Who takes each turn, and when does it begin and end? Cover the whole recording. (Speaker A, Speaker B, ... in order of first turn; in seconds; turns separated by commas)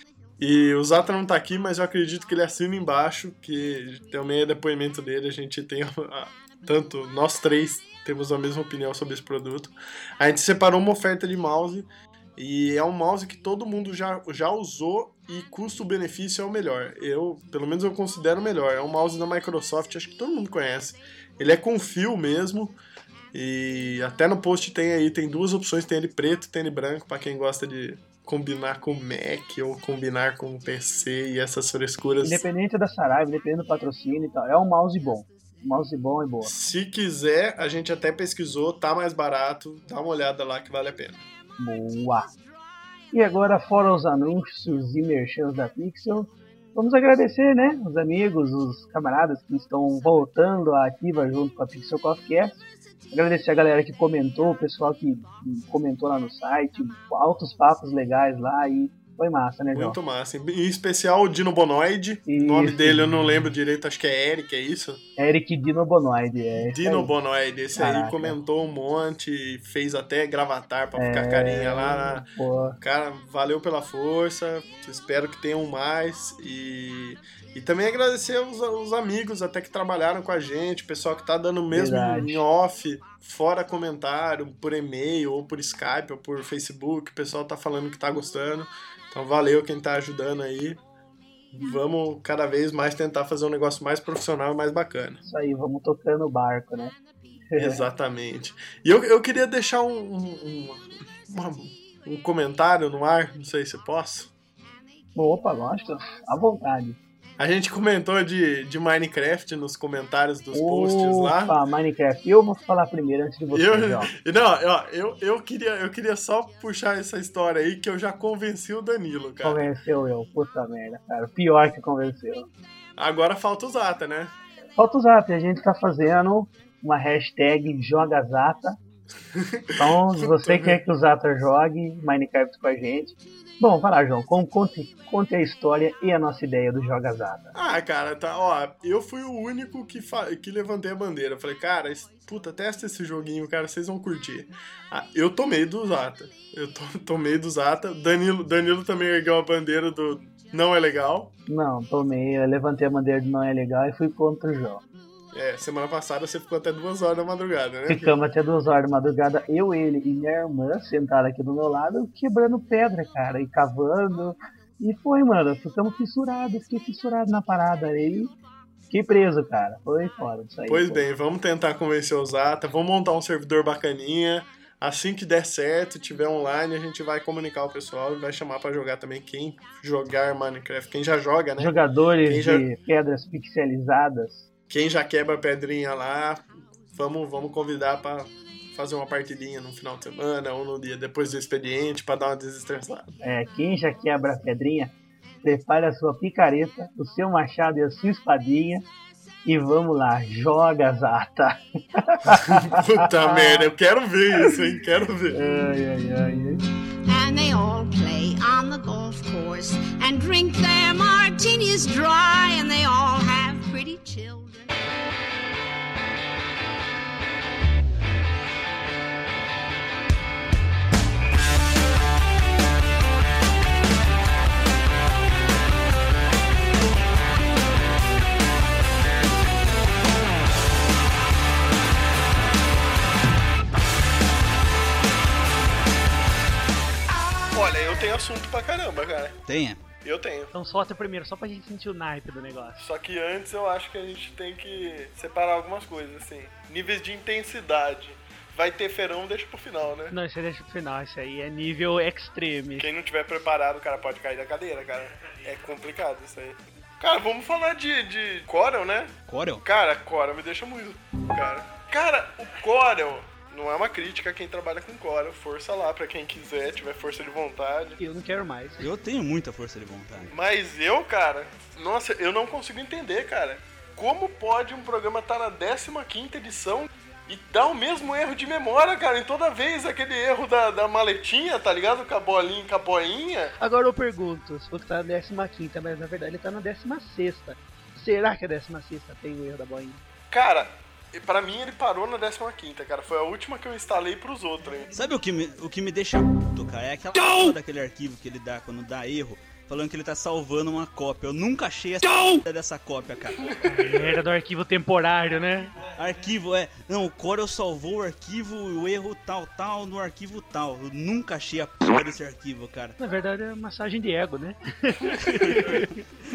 Speaker A: 0.4-22.8, Speaker A: 23.3-32.4, Speaker B: 32.2-36.5, Speaker A: 36.4-41.2, Speaker B: 41.6-42.3, Speaker B: 43.1-60.0, Speaker A: 59.8-65.0, Speaker B: 62.3-63.5, Speaker B: 65.2-67.1, Speaker A: 66.6-72.3, Speaker B: 67.8-68.4, Speaker B: 71.0-72.8, Speaker A: 72.8-90.8, Speaker B: 81.7-82.4, Speaker A: 91.5-95.2, Speaker B: 95.2-97.0, Speaker B: 97.5-97.9, Speaker A: 97.6-104.3, Speaker B: 105.2-107.0, Speaker A: 107.4-111.6, Speaker B: 110.5-114.1, Speaker A: 113.5-119.7, Speaker B: 119.4-122.5, Speaker A: 123.0-124.3, Speaker B: 124.8-128.8, Speaker A: 129.3-130.8, Speaker B: 129.8-137.5, Speaker A: 137.6-151.3, Speaker B: 151.5-154.8, Speaker A: 155.3-158.2, Speaker B: 157.9-168.3, Speaker B: 168.9-171.1, Speaker A: 170.7-182.7, Speaker B: 181.6-184.4, Speaker A: 184.7-193.1, Speaker B: 193.2-198.9, Speaker B: 199.4-203.7, Speaker A: 202.3-205.4, Speaker B: 205.3-206.7, Speaker C: 207.1-214.7, Speaker A: 237.5-239.4, Speaker D: 239.5-239.8, Speaker A: 240.0-240.5, Speaker E: 240.5-242.8, Speaker A: 242.8-250.2, Speaker E: 250.1-252.9, Speaker A: 252.8-268.0, Speaker D: 259.3-259.6, Speaker E: 268.0-268.9, Speaker D: 268.8-270.3, Speaker A: 270.3-283.6, Speaker E: 283.6-290.0, Speaker A: 290.3-294.9, Speaker D: 294.9-303.5, Speaker A: 303.5-303.8, Speaker E: 303.6-305.7, Speaker D: 305.9-313.0, Speaker E: 313.0-315.9, Speaker D: 315.5-315.8